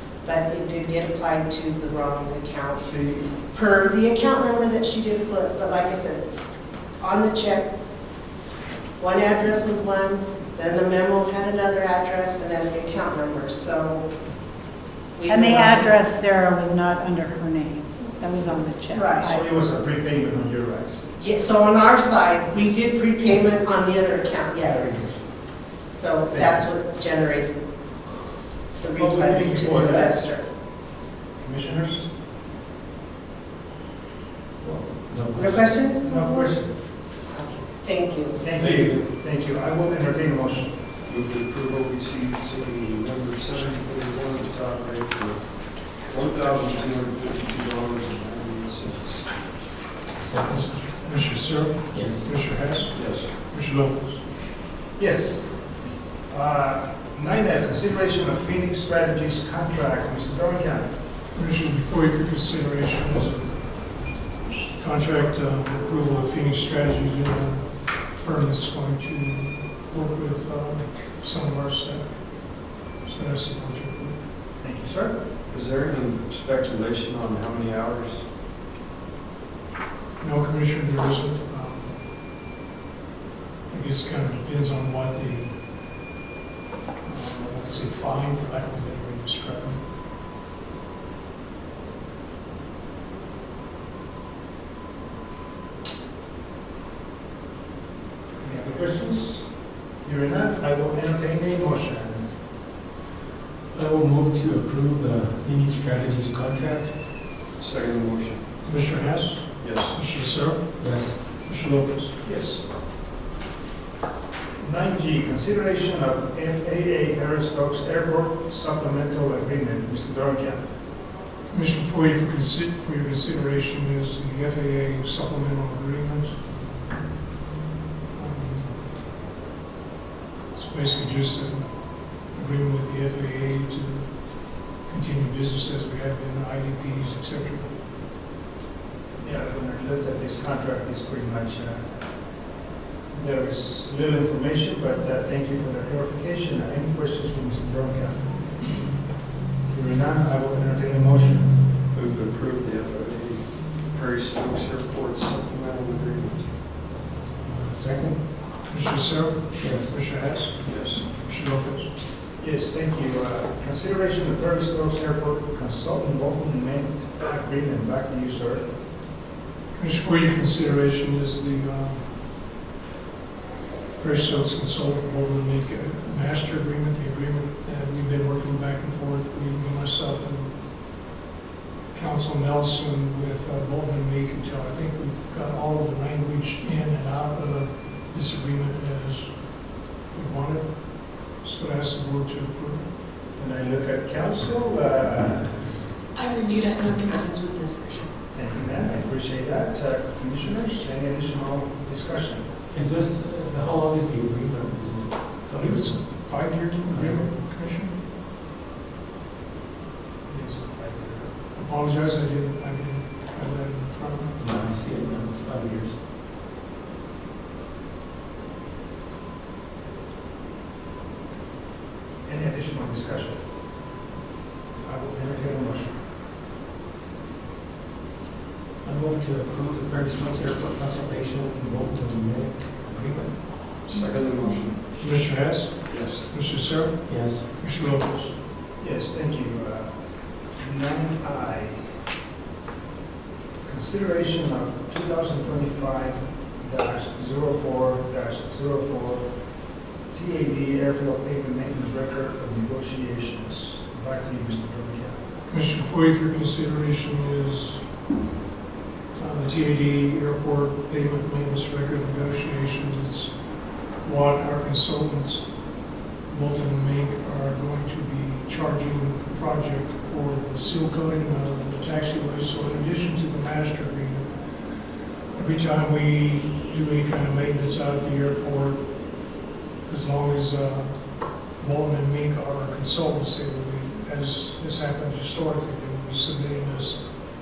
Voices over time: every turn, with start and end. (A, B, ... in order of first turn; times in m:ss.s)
0:00.2-0:06.4 A
0:02.8-0:03.2 B
0:07.0-0:07.7 A
0:09.0-0:14.1 A
0:15.1-0:16.0 A
0:15.3-0:19.4 C
0:18.9-0:19.3 A
0:19.2-0:21.0 D
0:21.2-0:25.0 A
0:24.6-0:25.2 D
0:25.9-0:27.5 A
0:26.3-0:26.6 D
0:28.8-0:30.4 A
0:28.9-0:30.2 D
0:31.4-0:32.1 D
0:34.6-0:34.9 D
0:35.0-0:35.6 E
0:35.3-0:36.6 A
0:35.9-0:36.7 D
0:37.3-0:38.4 A
0:38.4-0:40.8 D
0:38.6-0:39.0 F
0:41.0-0:49.4 F
0:50.2-0:50.9 E
0:50.8-0:54.2 B
0:51.9-0:52.2 E
0:52.9-0:53.4 F
0:55.0-0:55.5 D
0:56.3-1:00.9 D
1:01.3-1:03.5 B
1:04.7-1:14.2 B
1:14.6-1:15.2 D
1:15.5-1:18.2 F
1:20.2-1:21.9 B
1:23.7-1:25.5 B
1:27.0-1:29.8 B
1:38.4-1:39.5 D
1:40.0-1:42.3 D
1:43.7-1:46.9 E
1:47.6-1:48.4 F
1:48.6-1:52.1 B
1:49.6-1:50.0 F
1:50.8-1:51.2 E
1:52.2-1:52.6 D
1:54.6-2:00.6 D
2:01.5-2:06.3 B
2:08.1-2:08.7 B
2:10.5-2:17.7 B
2:19.2-2:21.9 D
2:23.1-2:28.7 D
2:29.7-2:31.5 D
2:31.9-2:36.5 F
2:37.4-2:38.2 E
2:38.6-2:41.9 B
2:39.6-2:39.9 E
2:40.6-2:41.1 F
2:42.4-2:48.6 D
2:49.7-2:52.1 B
2:54.0-3:00.6 B
3:01.9-3:12.8 B
3:13.4-3:15.8 D
3:16.1-3:18.1 G
3:18.3-3:22.4 D
3:22.7-3:25.2 E
3:25.5-3:28.0 B
3:26.9-3:27.3 E
3:30.3-3:31.3 D
3:31.5-3:34.3 B
3:34.4-3:36.0 E
3:42.2-3:43.4 D
3:44.8-3:45.9 D
3:48.8-3:53.4 E
3:53.9-3:54.8 F
3:55.0-3:58.3 B
3:55.9-3:56.2 F
3:57.1-3:57.4 E
3:58.8-3:59.9 D
4:00.6-4:01.8 D
4:03.6-4:09.2 D
4:10.1-4:15.2 D
4:15.5-4:17.8 B
4:19.2-4:23.3 B
4:23.8-4:25.5 B
4:26.2-4:34.3 B
4:35.3-4:38.8 B
4:39.8-4:41.0 B
4:41.5-4:47.0 B